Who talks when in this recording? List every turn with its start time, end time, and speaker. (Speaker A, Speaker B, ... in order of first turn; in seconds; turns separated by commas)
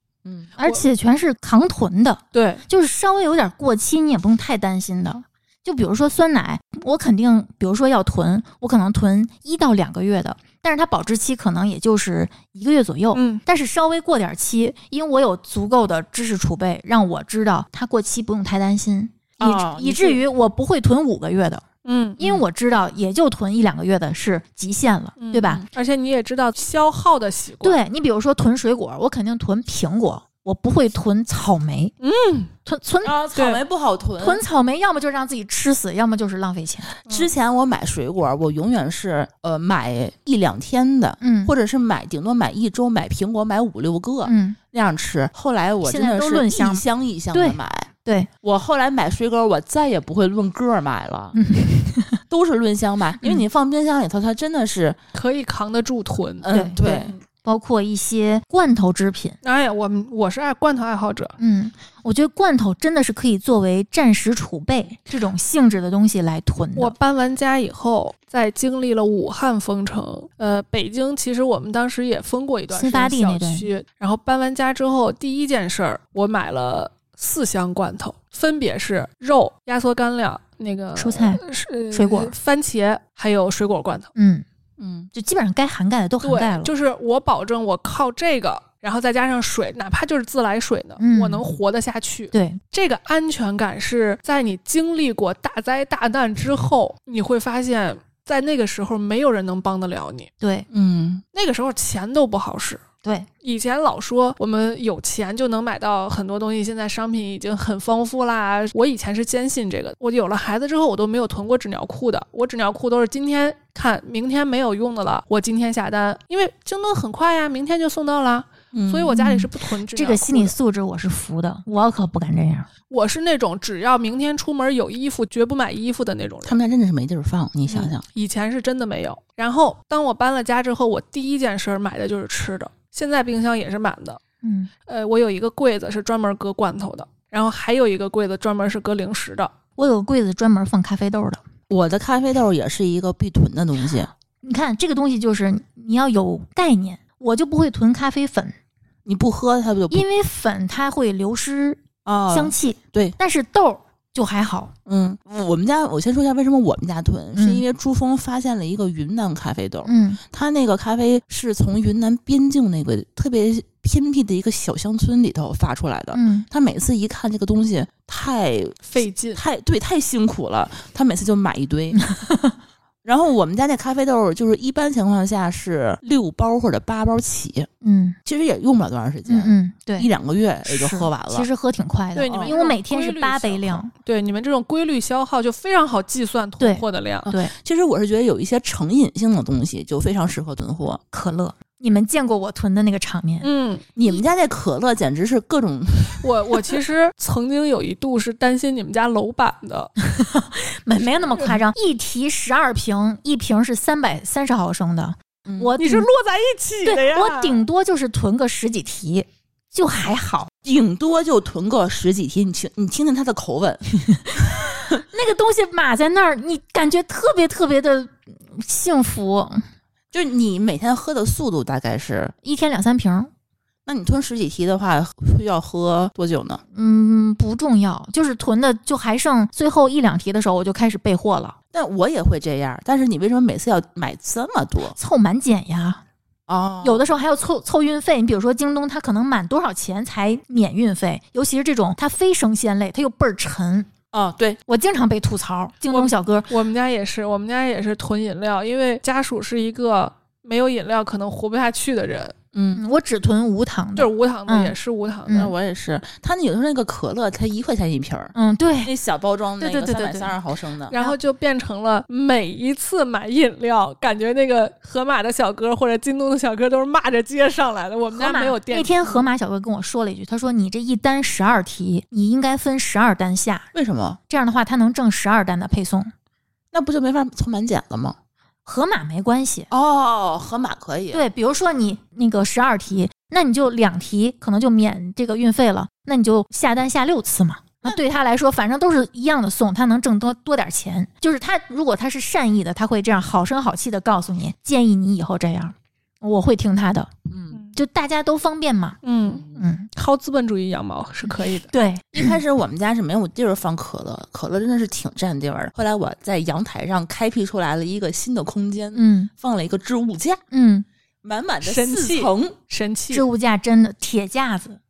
Speaker A: 0.2-0.5, Speaker B: 0.6-21.6, Speaker C: 2.3-2.6, Speaker C: 13.1-13.4, Speaker A: 19.4-20.2, Speaker C: 21.8-22.2, Speaker B: 22.2-25.6, Speaker C: 25.2-27.8, Speaker B: 27.6-31.9, Speaker C: 32.0-32.5, Speaker B: 32.6-33.2, Speaker A: 33.0-34.4, Speaker C: 33.3-33.6, Speaker B: 34.2-36.9, Speaker A: 37.0-47.9, Speaker B: 41.2-41.5, Speaker B: 44.2-44.6, Speaker B: 45.8-48.3, Speaker A: 48.4-51.4, Speaker B: 51.3-52.2, Speaker A: 52.3-55.0, Speaker C: 55.1-57.1, Speaker A: 56.4-57.1, Speaker B: 56.5-56.8, Speaker B: 57.4-59.4, Speaker C: 59.4-61.3, Speaker B: 61.4-66.9, Speaker C: 66.8-84.1, Speaker B: 72.7-73.7, Speaker B: 81.0-82.3, Speaker B: 84.2-84.4, Speaker A: 84.8-85.1, Speaker B: 85.1-86.7, Speaker C: 86.2-100.3, Speaker B: 91.0-91.5, Speaker B: 92.3-92.6, Speaker B: 100.4-100.7, Speaker A: 100.7-101.2, Speaker C: 101.3-102.8, Speaker C: 103.4-120.5, Speaker A: 118.7-119.1, Speaker B: 119.1-122.7, Speaker C: 122.9-126.6, Speaker A: 126.4-128.0, Speaker C: 127.7-134.2, Speaker B: 134.4-134.7, Speaker C: 134.9-139.5, Speaker B: 139.8-141.4, Speaker A: 141.7-144.1, Speaker B: 144.4-148.6, Speaker A: 149.1-150.0, Speaker B: 149.9-154.7, Speaker A: 152.0-153.2, Speaker A: 154.8-172.0, Speaker B: 157.3-157.6, Speaker B: 159.8-160.2, Speaker B: 166.1-166.4, Speaker C: 168.8-169.4, Speaker B: 171.9-172.6, Speaker A: 173.0-177.7, Speaker B: 177.8-178.2, Speaker A: 178.2-181.5, Speaker B: 179.3-180.1, Speaker B: 180.7-183.9, Speaker C: 182.2-187.3, Speaker B: 186.6-187.5, Speaker A: 187.2-191.0, Speaker B: 191.1-193.5, Speaker C: 193.4-193.9, Speaker A: 193.9-196.3, Speaker C: 196.2-199.9, Speaker B: 200.0-206.1, Speaker A: 205.4-205.7, Speaker C: 205.8-207.6, Speaker B: 206.8-210.5, Speaker A: 210.6-215.0, Speaker B: 214.1-219.7, Speaker A: 220.1-222.3, Speaker B: 222.4-223.3, Speaker A: 223.8-226.6, Speaker B: 226.7-231.6, Speaker A: 231.7-234.9, Speaker B: 234.9-236.0, Speaker A: 236.5-237.0, Speaker B: 236.8-243.9, Speaker A: 244.1-244.6, Speaker B: 244.7-246.5, Speaker C: 245.9-252.3, Speaker A: 252.5-252.8, Speaker B: 252.8-254.7, Speaker C: 253.9-255.5, Speaker A: 255.3-258.3, Speaker B: 258.3-258.9, Speaker A: 258.8-260.9, Speaker B: 259.6-260.3, Speaker C: 260.9-269.3, Speaker B: 268.1-273.7, Speaker A: 273.7-274.2, Speaker B: 274.3-276.1, Speaker A: 276.7-278.1, Speaker B: 278.6-279.7, Speaker A: 279.7-281.2, Speaker B: 281.1-297.1, Speaker A: 297.3-297.6, Speaker B: 297.7-299.0, Speaker C: 299.0-301.7, Speaker A: 299.3-299.6, Speaker B: 299.5-299.9, Speaker B: 301.7-302.3, Speaker A: 302.1-310.4, Speaker B: 308.9-309.3, Speaker B: 310.5-310.9, Speaker A: 311.2-312.6, Speaker C: 311.6-313.2, Speaker B: 313.1-314.8